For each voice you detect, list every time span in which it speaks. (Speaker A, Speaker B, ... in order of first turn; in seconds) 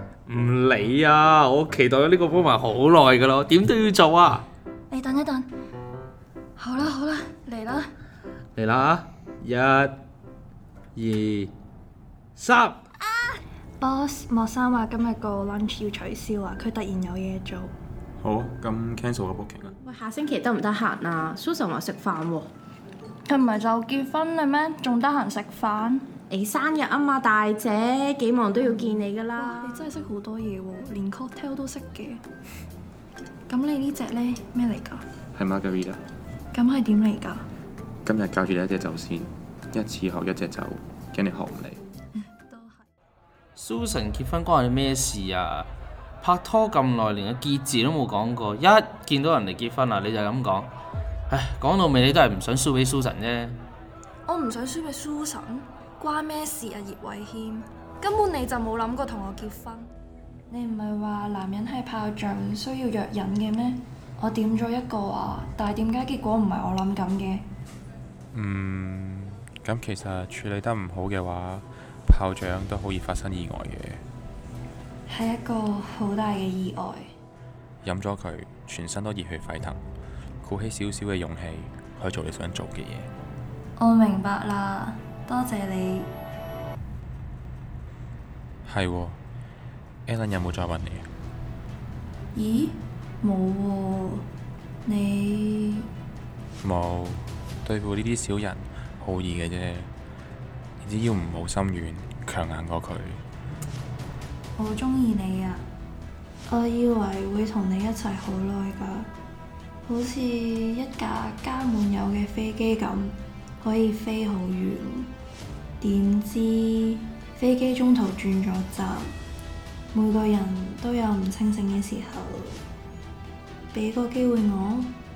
Speaker A: 0.3-4.5, 8.6-10.0, 10.9-11.5, 12.4-12.8, 43.5-45.7, 46.2-50.7, 51.3-53.6
Speaker B: 4.9-5.5, 6.6-7.9, 13.8-17.7, 23.3-26.1, 28.7-32.2, 33.5-35.0, 36.5-37.5, 42.3-42.8, 54.3-59.9, 60.5-67.5, 75.1-77.1, 83.8-86.1, 92.3-94.3, 94.8-95.9, 104.6-105.6, 106.5-109.1, 109.9-115.1, 115.8-119.1, 119.9-122.6, 123.7-124.9
Speaker C: 18.2-19.8, 35.3-36.0, 38.0-41.8, 68.3-74.0, 77.8-79.8, 80.4-83.1, 88.6-89.2, 90.1-91.1, 96.6-99.9, 100.8-103.2
Speaker D: 19.8-22.5, 26.3-29.8